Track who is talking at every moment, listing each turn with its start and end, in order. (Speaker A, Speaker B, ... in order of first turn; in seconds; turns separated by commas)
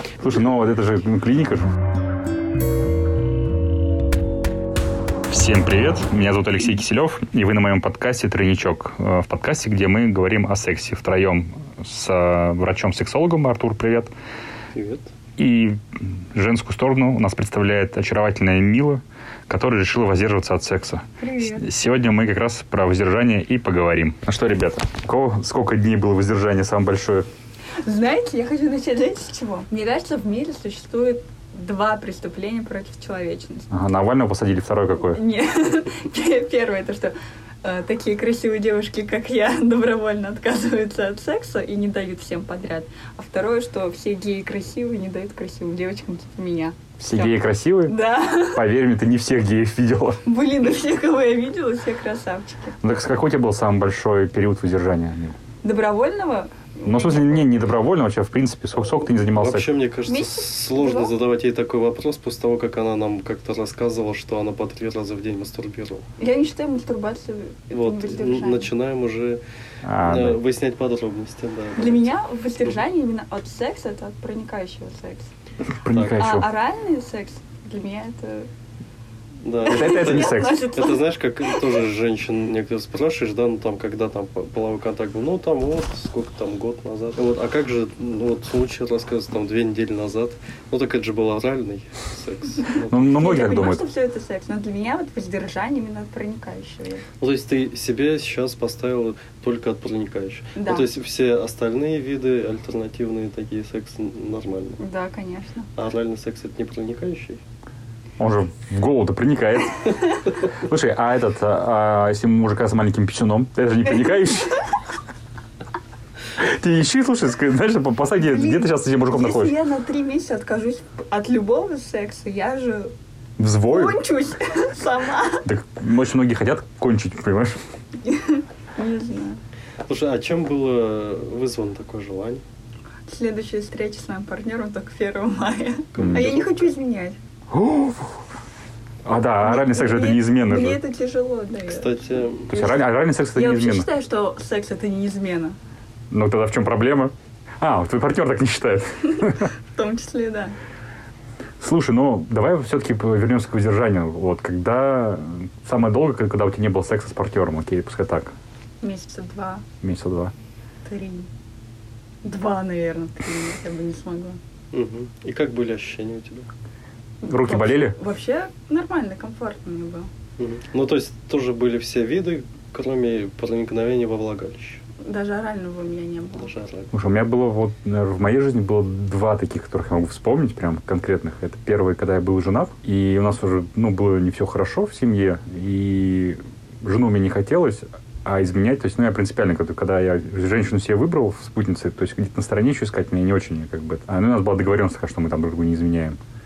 Speaker A: 0.2-1.7, Speaker A: 5.3-14.1, Speaker B: 14.7-15.1, Speaker A: 15.4-27.2, Speaker C: 21.2-21.6, Speaker C: 27.8-33.7, Speaker A: 33.7-35.2, Speaker C: 35.1-48.6, Speaker A: 47.0-47.9, Speaker A: 48.5-50.2, Speaker C: 50.2-52.8, Speaker A: 52.8-55.4, Speaker C: 55.6-57.5, Speaker A: 56.8-59.6, Speaker B: 59.3-66.0, Speaker C: 60.1-61.1, Speaker C: 66.2-68.7, Speaker B: 67.7-69.4, Speaker A: 69.8-70.4, Speaker B: 70.0-72.1, Speaker C: 71.8-75.3, Speaker A: 75.7-76.5, Speaker B: 75.9-76.2, Speaker C: 76.2-78.5, Speaker B: 79.4-93.0, Speaker C: 79.6-81.6, Speaker A: 79.7-80.5, Speaker C: 92.7-97.0, Speaker A: 92.9-93.8, Speaker B: 97.2-104.8, Speaker C: 100.5-100.9, Speaker C: 104.8-105.7, Speaker B: 105.8-107.4, Speaker A: 108.2-110.0, Speaker A: 110.5-114.6, Speaker A: 116.4-119.5, Speaker C: 118.2-122.9, Speaker A: 123.4-124.0, Speaker C: 123.7-125.5, Speaker A: 125.4-127.5, Speaker C: 128.0-129.4, Speaker B: 129.9-132.4, Speaker C: 133.1-137.2, Speaker B: 135.9-136.6, Speaker A: 136.0-136.3, Speaker A: 137.5-138.2, Speaker A: 139.0-140.8, Speaker C: 139.4-142.8, Speaker B: 141.7-142.5, Speaker A: 142.5-143.9, Speaker C: 143.3-145.5, Speaker A: 146.1-149.5, Speaker C: 149.7-150.5, Speaker A: 151.6-158.3, Speaker C: 158.8-159.6, Speaker A: 159.8-160.3, Speaker C: 160.8-161.3, Speaker C: 162.2-164.4, Speaker B: 164.7-166.5, Speaker C: 167.2-170.1, Speaker A: 167.3-167.9, Speaker B: 170.4-174.8, Speaker C: 175.0-176.5, Speaker B: 176.4-176.9, Speaker A: 176.9-196.2